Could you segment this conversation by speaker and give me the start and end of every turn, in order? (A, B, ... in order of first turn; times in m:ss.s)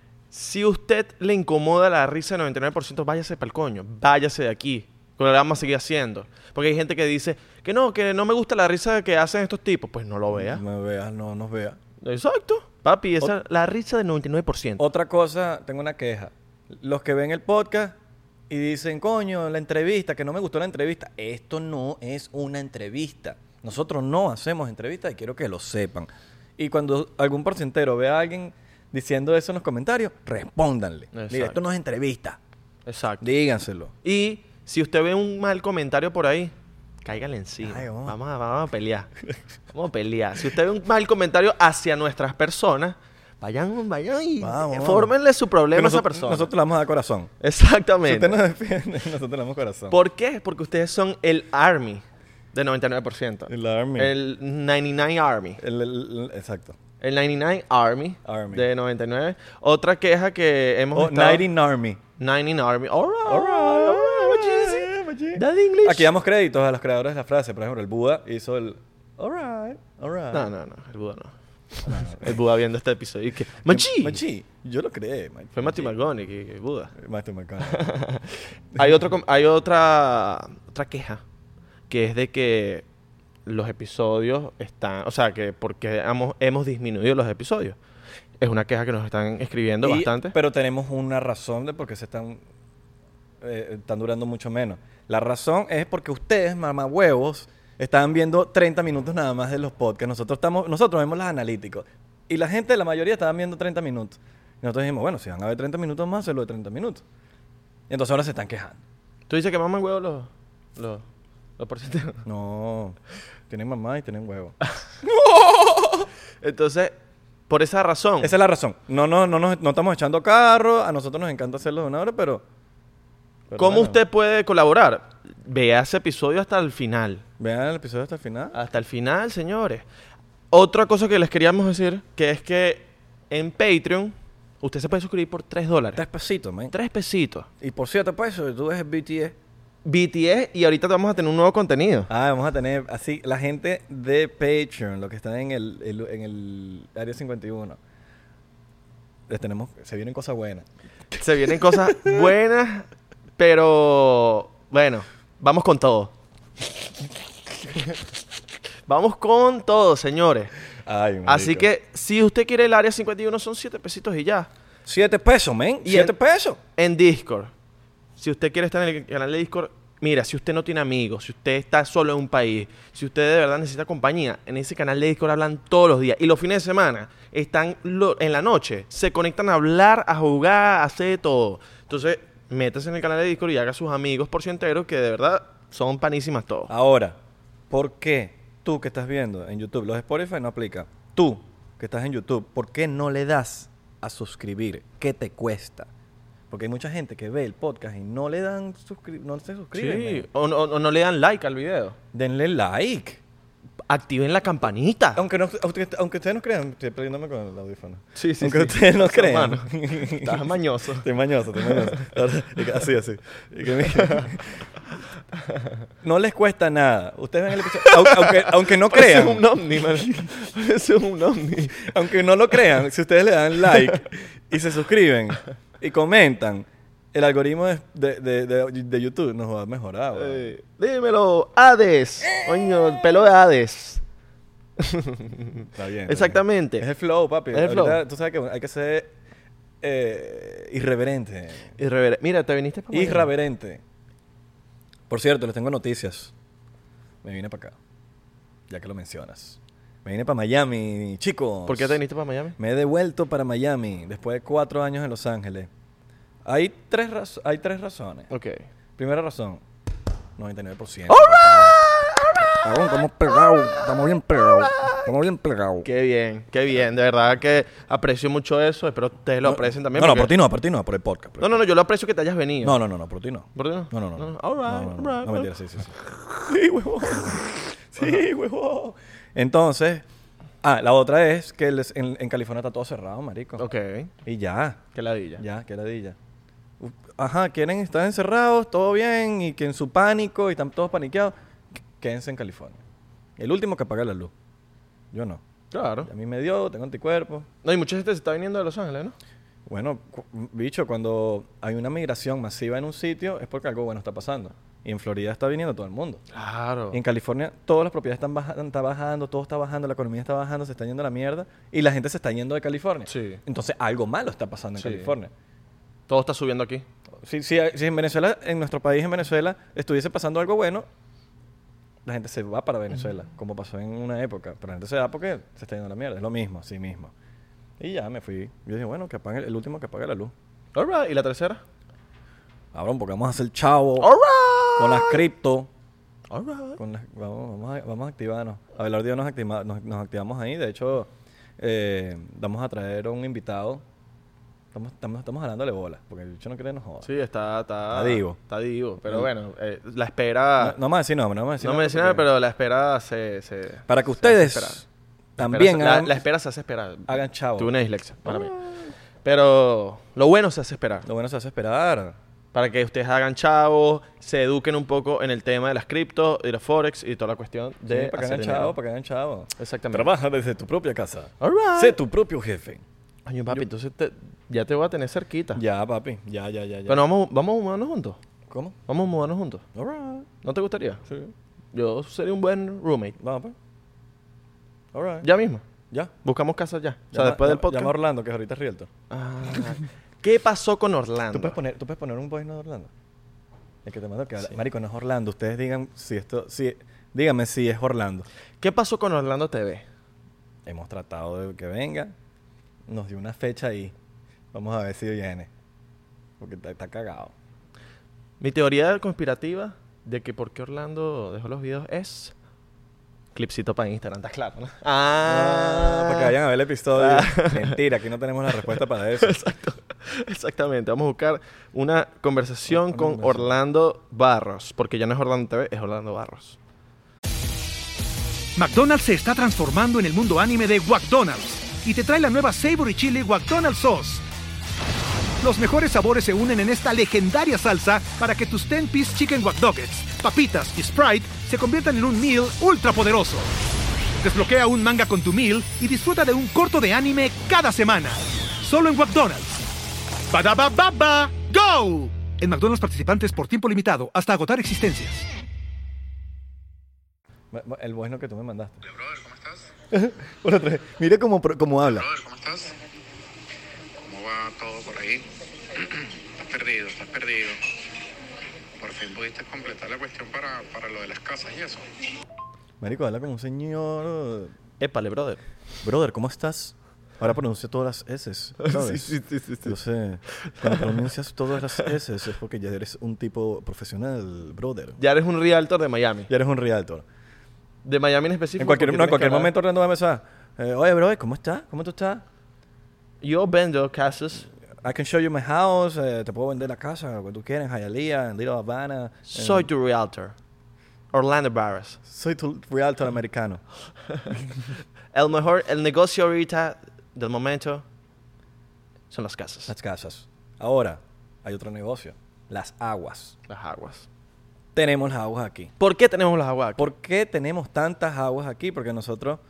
0:00.3-0:10.6 A
0:10.3-0:11.8 B
0:12.0-0:14.8 A
0:14.8-0:18.0 B
0:18.5-0:32.4 B
0:31.1-0:31.6 A
0:32.8-0:33.3 A
0:33.2-0:33.9 B
0:34.0-0:36.5 A
0:37.0-0:39.1 A
0:37.6-0:38.2 B
0:39.7-0:46.5 A
0:44.4-0:45.1 B
0:45.7-0:47.3 B
0:47.4-0:48.4 A
0:48.0-0:50.0 B
0:49.9-0:52.0 A
0:52.5-0:55.6 A
0:53.5-0:54.1 B
0:55.6-0:56.8 B
0:57.0-1:01.4 A
0:58.2-0:58.6 B
1:00.9-1:02.0 B
1:02.2-1:06.1 A
1:03.2-1:10.5 B
1:10.3-1:14.2 A
1:11.8-1:12.4 B
1:13.7-1:15.9 B
1:15.6-1:16.9 A
1:17.0-1:17.9 B
1:17.6-1:21.2 A
1:21.9-1:22.8 A
1:23.4-1:27.8 A
1:28.4-1:30.3 A
1:29.8-1:32.4 B
1:33.4-1:47.0 B
1:47.9-1:48.8 B
1:49.3-1:51.0 A
1:51.6-1:52.2 A
1:52.2-1:56.1 B
1:56.4-1:57.0 A
1:57.5-1:58.3 A
1:58.2-2:02.4 B
2:03.5-2:04.0 B
2:03.6-2:07.2 A
2:07.4-2:08.6 B
2:08.5-2:09.8 A
2:10.5-2:16.0 A
2:15.9-2:16.7 B
2:16.7-2:17.5 A
2:17.6-2:19.4 B
2:19.8-2:22.1 A
2:22.1-2:27.8 B
2:29.3-2:30.6 B
2:31.2-2:32.9 A
2:31.9-2:32.2 B
2:33.4-2:36.1 A
2:38.9-2:40.5 A
2:40.8-2:41.7 B
2:41.2-2:44.5 A
2:44.8-2:46.6 B
2:45.8-2:46.1 A
2:46.8-2:47.5 A
2:48.2-3:06.7 A
3:06.7-3:07.2 B
3:07.7-3:15.9 B
3:16.5-3:20.2 B
3:19.7-3:22.0 A
3:22.1-3:23.2 B
3:23.9-3:25.2 A
3:25.1-3:30.4 B
3:28.2-3:32.2 A
3:31.0-3:34.6 B
3:33.7-3:34.3 A
3:36.0-3:39.4 B
3:37.6-3:41.9 A
3:41.8-3:50.5 B
3:43.7-3:44.0 A
3:50.2-3:54.0 A
3:54.8-3:56.9 A
3:55.7-3:59.1 B
3:57.5-3:58.0 A
3:59.8-4:01.7 B
4:01.8-4:03.3 A
4:02.9-4:03.8 B
4:05.1-4:06.3 B
4:07.2-4:07.7 B
4:08.7-4:12.0 B
4:11.7-4:12.6 A
4:12.6-4:15.7 B
4:16.4-4:18.3 B
4:18.3-4:18.7 A
4:19.0-4:19.6 B
4:20.4-4:21.8 B
4:21.1-4:23.9 A
4:22.4-4:25.9 B
4:24.4-4:25.0 A
4:25.8-4:30.3 A
4:29.4-4:31.6 B
4:31.4-4:32.8 A
4:32.6-4:40.0 B
4:33.5-4:35.5 A
4:40.6-4:43.6 B
4:43.6-4:44.1 A
4:44.2-4:44.8 B
4:44.9-4:45.4 A
4:45.4-4:46.2 B
4:46.8-4:51.3 B
4:52.0-4:52.8 B
4:53.4-4:54.3 B
4:55.1-4:55.4 B
4:55.7-4:56.1 A
4:56.0-4:57.5 B
4:57.6-4:59.2 A
4:59.6-5:06.2 B
5:06.3-5:07.0 A
5:06.9-5:15.3 B
5:13.1-5:13.4 A
5:14.8-5:15.1 A
5:16.1-5:16.8 A
5:17.2-5:20.9 B
5:22.0-5:27.1 B
5:27.8-5:30.3 B
5:30.7-5:31.6 A
5:32.7-5:34.1 B
5:34.0-5:35.2 A
5:34.8-5:35.7 B
5:36.3-5:36.8 A
5:36.8-5:43.8 B
5:44.7-5:47.1 B
5:47.0-5:50.8 A
5:47.9-5:48.4 B
5:50.6-5:52.2 B
5:51.6-5:54.8 A
5:53.9-5:54.8 B
5:55.4-5:56.2 B
5:55.4-5:58.6 A
5:57.1-5:57.7 B
5:58.2-5:58.8 B
5:59.2-6:01.0 A
6:01.0-6:02.2 B
6:02.5-6:08.7 A
6:07.9-6:12.8 B
6:09.6-6:10.1 A
6:11.4-6:12.0 A
6:13.2-6:15.6 A
6:15.5-6:17.0 B
6:16.9-6:18.2 A
6:18.5-6:18.8 B
6:18.9-6:19.6 A
6:19.7-6:20.3 B
6:20.4-6:21.0 A
6:21.7-6:23.2 A
6:23.2-6:23.5 B
6:24.9-6:25.3 B
6:25.2-6:25.6 A
6:26.2-6:27.9 A
6:27.1-6:28.9 B
6:29.1-6:31.6 A
6:31.3-6:32.9 B
6:33.8-6:38.3 B
6:38.6-6:39.8 A
6:40.6-6:42.1 B
6:42.9-6:43.9 B
6:44.5-6:45.5 B
6:46.4-6:47.3 B
6:48.4-6:52.3 A
6:53.3-6:56.3 A
6:55.2-6:59.5 B
6:57.0-6:57.8 A
6:59.2-7:06.6 A
7:02.7-7:03.5 B
7:08.6-7:14.2 C
7:15.4-7:23.5 C
7:24.2-7:29.6 C
7:30.3-7:35.2 C
7:37.5-7:38.8 B
7:38.8-7:39.7 D
7:39.9-7:42.1 B
7:41.9-7:42.8 D
7:44.0-7:47.6 D
7:48.8-7:51.8 D
7:52.8-7:54.5 B
7:54.8-7:55.4 A
7:55.8-8:05.0 B
7:58.6-7:59.7 A
8:00.4-8:00.9 A
8:05.0-8:06.3 A
8:06.3-8:07.0 B
8:07.8-8:09.5 A
8:08.6-8:12.2 B
8:13.2-8:14.5 A
8:14.8-8:19.7 B
8:19.3-8:20.3 A
8:21.1-8:22.0 A
8:22.0-8:23.6 B
8:25.1-8:27.8 A
8:29.1-8:29.7 A
8:29.7-8:33.4 B
8:33.5-8:34.1 A
8:34.7-8:35.7 B
8:35.8-8:36.9 A
8:36.8-8:39.4 B